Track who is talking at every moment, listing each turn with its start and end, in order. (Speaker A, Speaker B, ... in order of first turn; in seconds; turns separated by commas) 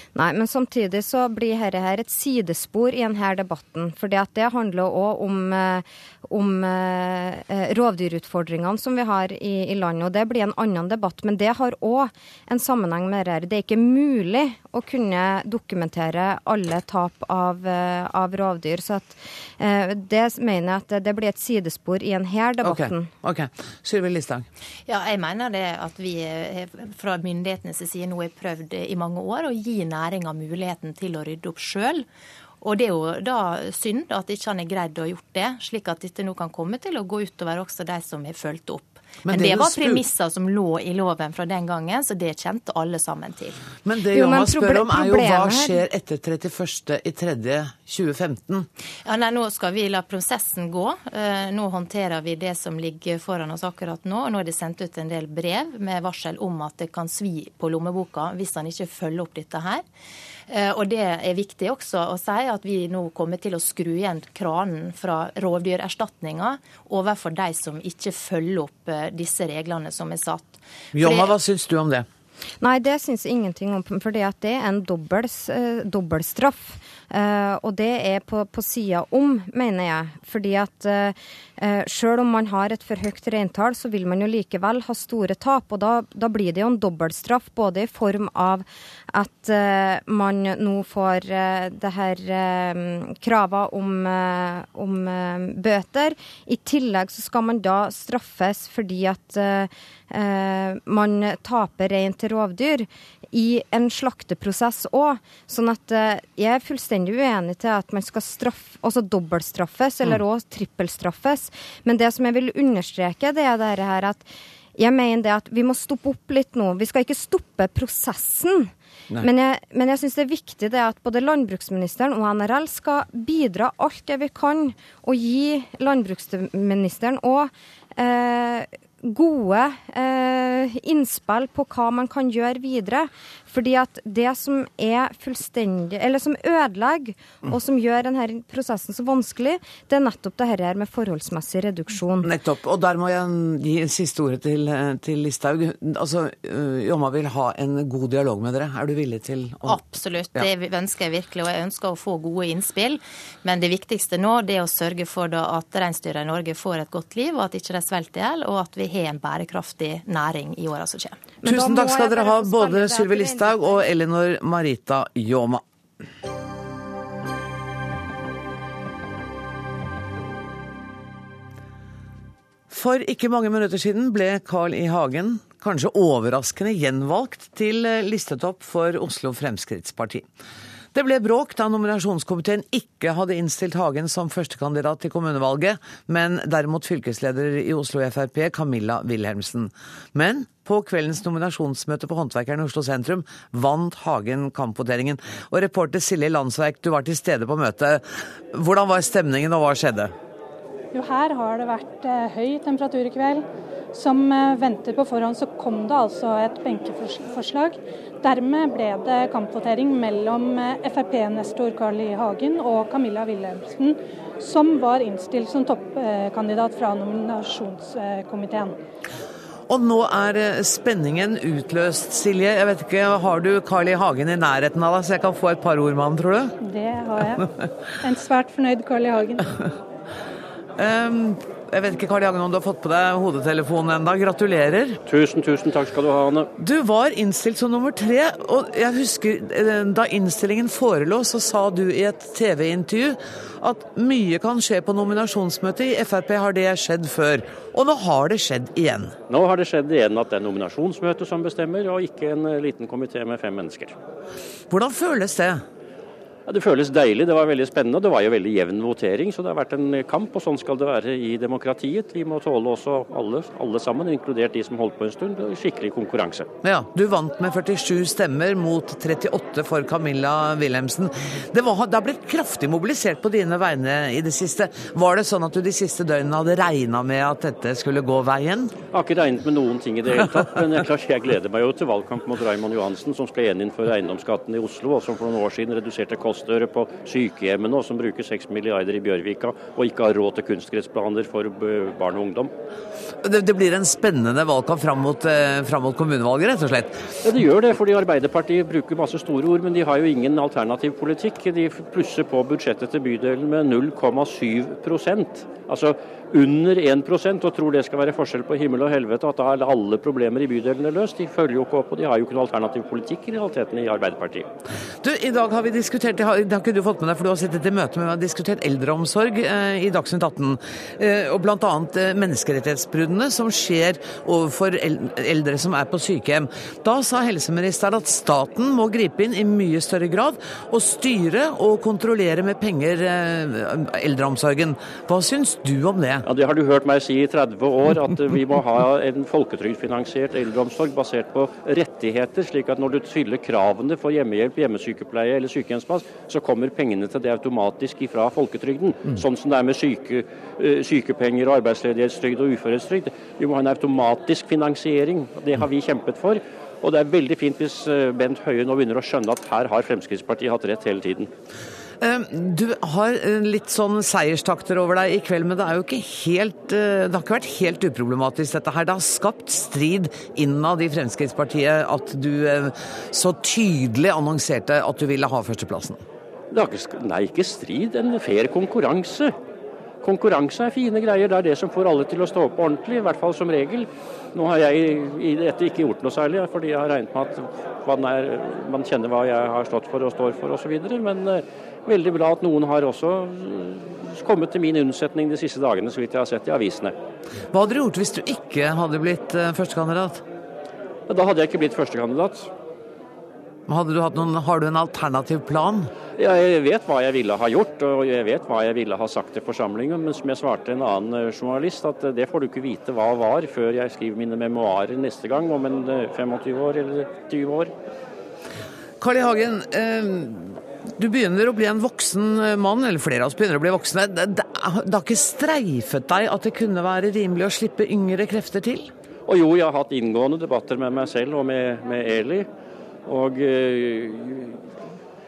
Speaker A: 0.1-23.1, Speaker B: 22.6-24.5, Speaker C: 24.9-32.0, Speaker C: 32.6-43.6, Speaker B: 39.2-40.0, Speaker B: 43.9-48.7, Speaker A: 44.1-45.8, Speaker C: 49.0-59.8, Speaker C: 60.5-71.3, Speaker B: 70.9-72.1, Speaker A: 72.6-142.3, Speaker B: 142.2-149.8, Speaker C: 149.7-161.2, Speaker A: 161.4-163.9, Speaker B: 161.4-165.6, Speaker B: 172.7-180.3, Speaker B: 180.9-200.1, Speaker D: 200.9-218.8, Speaker B: 219.7-226.6, Speaker D: 226.6-227.5, Speaker D: 228.0-229.6, Speaker B: 230.8-235.0, Speaker E: 235.1-236.5, Speaker B: 236.6-249.2, Speaker E: 249.3-253.9, Speaker B: 254.7-255.6, Speaker E: 256.5-266.5, Speaker B: 266.6-278.8, Speaker E: 278.9-292.5, Speaker B: 293.2-297.1, Speaker E: 297.2-314.5, Speaker B: 315.0-336.3, Speaker E: 336.3-361.3, Speaker B: 362.0-376.0, Speaker E: 376.5-379.3, Speaker E: 380.0-396.9, Speaker B: 397.5-400.2, Speaker E: 401.1-402.5, Speaker B: 403.7-405.9, Speaker E: 406.2-417.7, Speaker B: 419.0-428.9, Speaker E: 429.3-432.5, Speaker E: 433.1-434.6